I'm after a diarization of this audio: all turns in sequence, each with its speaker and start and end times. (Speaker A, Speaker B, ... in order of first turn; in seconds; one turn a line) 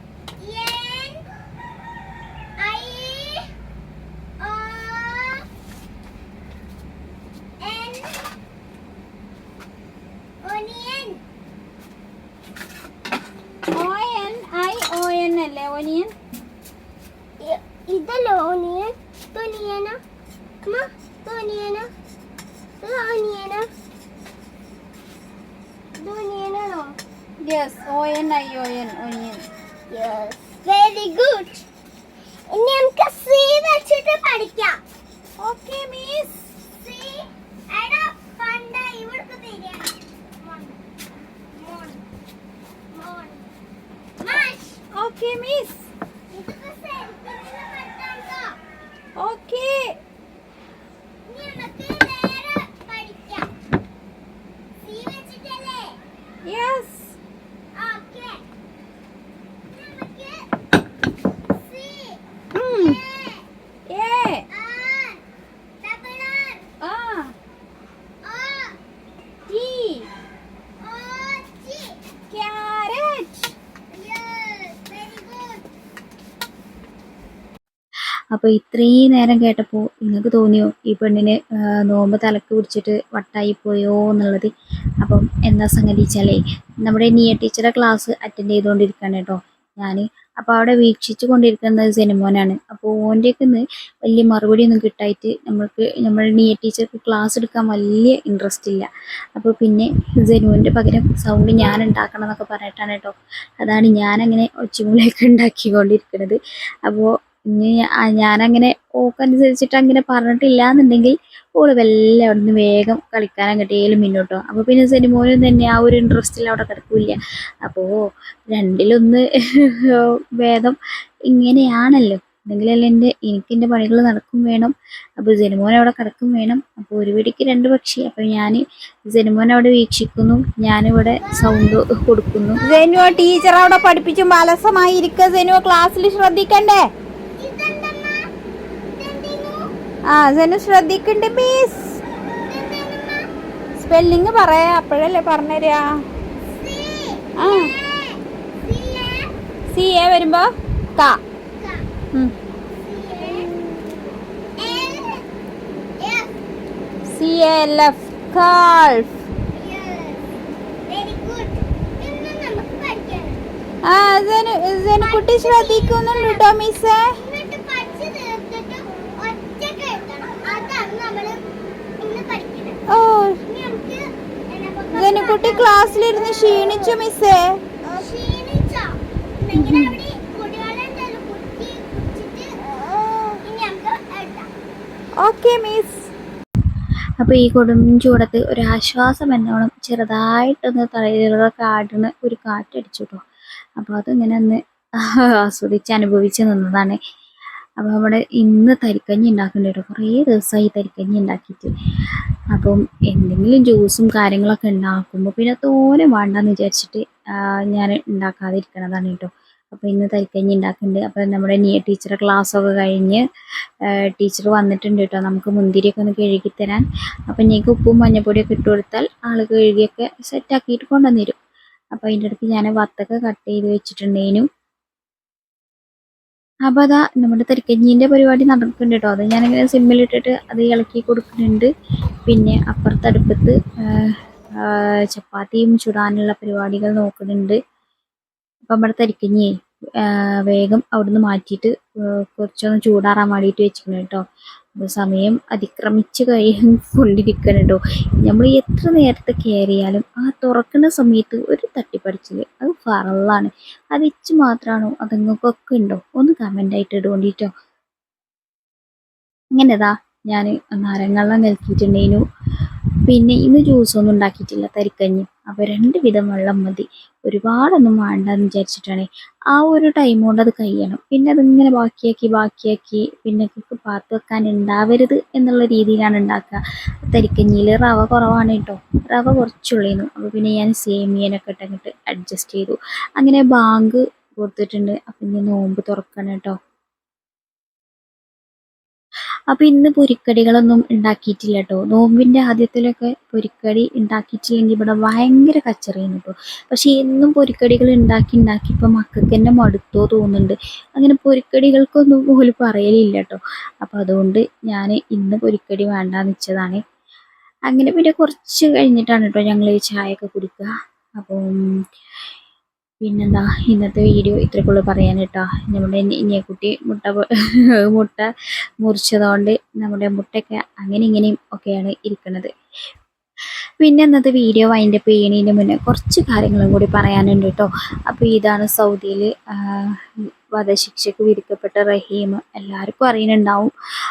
Speaker A: 0.4-1.3
Speaker A: 2.6-3.5
Speaker A: 4.4-5.5
Speaker A: 7.6-8.3
Speaker A: 10.4-11.2
Speaker B: 13.7-16.1
Speaker A: 17.4-20.0
Speaker A: 20.6-21.9
Speaker A: 22.8-23.7
Speaker A: 26.0-27.0
Speaker B: 27.4-29.5
Speaker A: 29.9-31.6
Speaker A: 32.5-34.8
Speaker B: 35.4-36.4
Speaker A: 36.7-40.8
Speaker A: 41.6-42.0
Speaker A: 42.9-43.5
Speaker A: 44.2-44.8
Speaker B: 44.3-45.9
Speaker A: 46.3-48.6
Speaker B: 49.2-50.0
Speaker A: 51.3-53.5
Speaker A: 54.8-56.0
Speaker B: 56.4-57.2
Speaker A: 57.7-58.4
Speaker A: 59.7-60.5
Speaker A: 61.5-62.2
Speaker B: 62.5-63.0
Speaker A: 62.7-63.5
Speaker B: 63.9-64.5
Speaker A: 64.5-65.2
Speaker A: 65.8-66.7
Speaker B: 66.8-67.3
Speaker A: 68.2-68.8
Speaker B: 69.5-70.1
Speaker A: 70.8-72.0
Speaker B: 72.3-73.5
Speaker A: 73.9-75.7
Speaker C: 78.3-84.5
Speaker C: 85.0-118.0
Speaker C: 118.5-120.8
Speaker C: 121.3-132.6
Speaker A: 131.2-131.8
Speaker A: 132.6-134.0
Speaker B: 132.6-136.9
Speaker A: 137.4-138.3
Speaker A: 139.0-139.7
Speaker B: 140.1-142.0
Speaker A: 142.3-143.3
Speaker B: 143.8-146.0
Speaker A: 146.5-149.3
Speaker B: 147.4-147.7
Speaker B: 149.7-151.2
Speaker A: 151.6-151.9
Speaker A: 152.7-153.6
Speaker B: 153.4-153.6
Speaker A: 154.6-155.3
Speaker A: 156.0-156.3
Speaker B: 157.1-159.2
Speaker A: 159.5-160.2
Speaker A: 160.9-163.4
Speaker B: 163.8-167.2
Speaker A: 165.0-166.6
Speaker A: 167.2-171.4
Speaker A: 172.0-172.8
Speaker B: 172.9-173.4
Speaker A: 173.4-176.9
Speaker B: 174.9-177.6
Speaker A: 177.8-184.5
Speaker B: 179.5-180.0
Speaker B: 185.2-186.1
Speaker C: 187.2-193.2
Speaker C: 193.8-197.0
Speaker C: 197.8-201.7
Speaker C: 202.5-213.2
Speaker C: 214.0-221.4
Speaker C: 221.9-224.5
Speaker C: 226.7-231.7
Speaker C: 232.3-237.6
Speaker C: 238.7-244.2
Speaker C: 244.8-257.5
Speaker C: 259.5-262.2
Speaker C: 263.1-286.6
Speaker C: 289.5-306.8
Speaker C: 307.7-311.6
Speaker C: 313.0-318.3
Speaker C: 318.8-322.5
Speaker C: 323.8-333.7